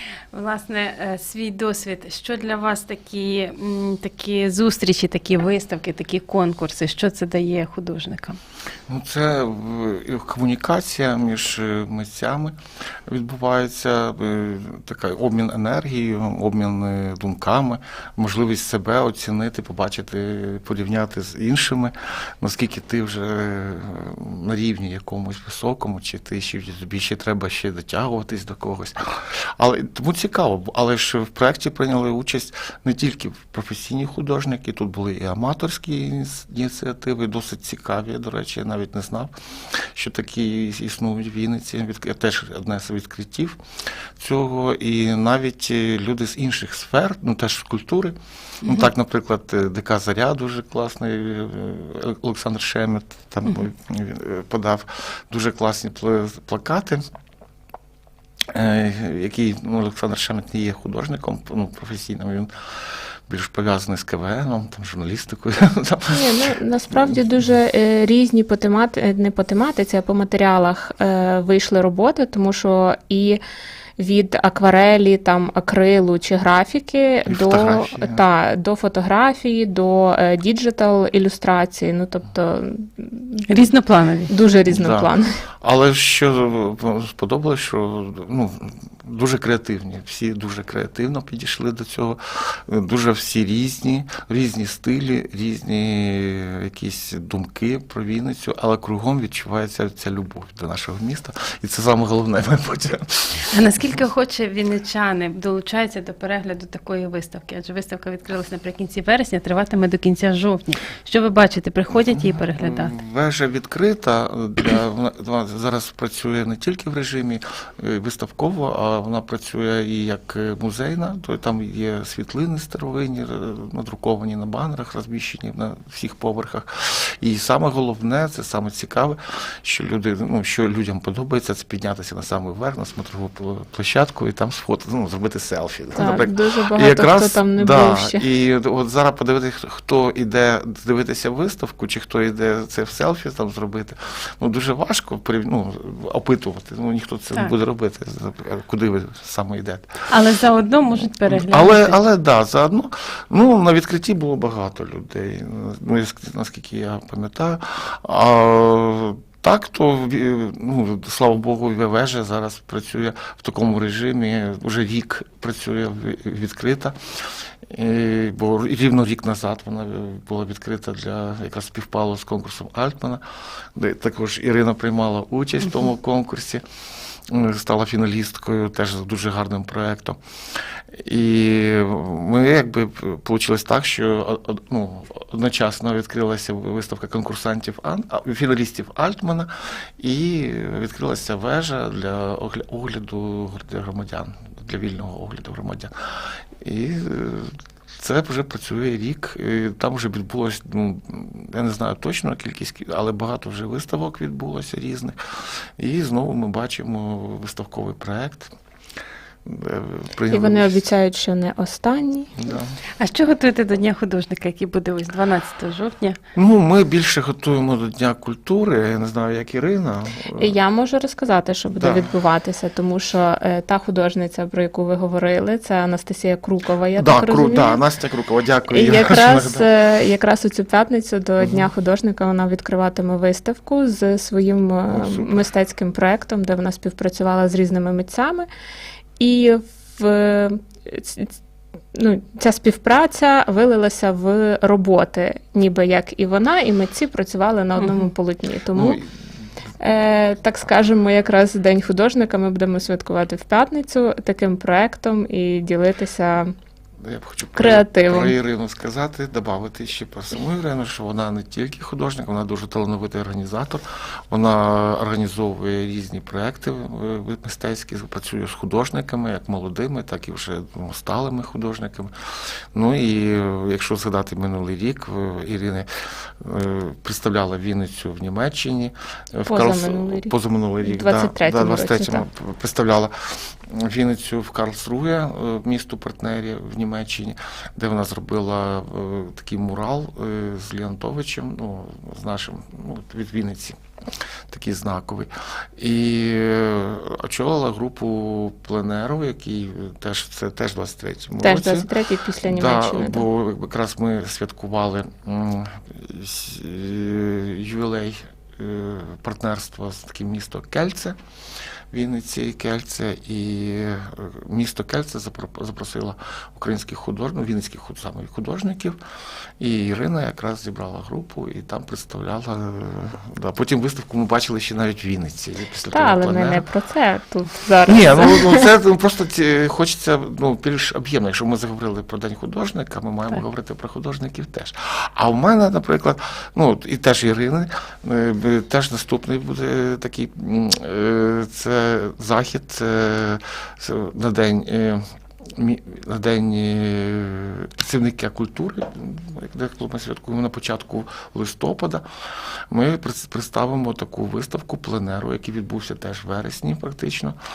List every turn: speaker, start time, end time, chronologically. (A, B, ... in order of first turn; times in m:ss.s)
0:00.3-0:08.4 A
0:08.9-0:12.6 B
0:13.1-0:43.6 B
0:44.2-0:57.0 B
0:58.5-1:02.5 B
1:03.3-1:07.2 B
1:06.1-1:13.4 C
1:14.0-1:23.4 C
1:17.3-1:18.2 B
1:23.5-1:24.3 A
1:24.3-1:25.3 C
1:24.7-1:25.1 B
1:25.6-1:43.5 B
1:43.5-1:52.9 A
1:52.0-2:30.0 B
2:15.9-2:18.2 C
2:30.1-2:32.0 A
2:31.3-2:47.0 B
2:47.7-2:53.2 B
2:53.8-2:56.6 B
2:57.3-3:00.2 B
3:00.9-3:15.9 B
3:16.6-3:28.5 B
3:29.4-3:30.8 B
3:30.3-3:32.4 C
3:32.4-3:32.8 B
3:33.0-3:36.2 A
3:36.3-3:40.5 B
3:40.4-3:47.8 C
3:41.7-3:42.1 B
3:47.0-3:49.7 B
3:48.7-3:58.5 C
3:51.4-3:51.6 B
3:54.9-3:55.4 B
3:59.2-4:01.3 C
4:01.9-4:09.0 C
4:08.7-4:09.0 B
4:09.8-4:16.5 C
4:17.0-4:32.1 B
4:17.5-4:18.3 C
4:32.7-4:53.8 B
4:39.5-4:42.2 C
4:54.5-5:01.9 B
5:01.4-5:03.3 C
5:02.5-5:11.2 B
5:11.9-5:19.0 B
5:19.6-5:26.6 B
5:25.9-5:28.7 C
5:27.8-5:45.0 B
5:45.6-5:57.4 B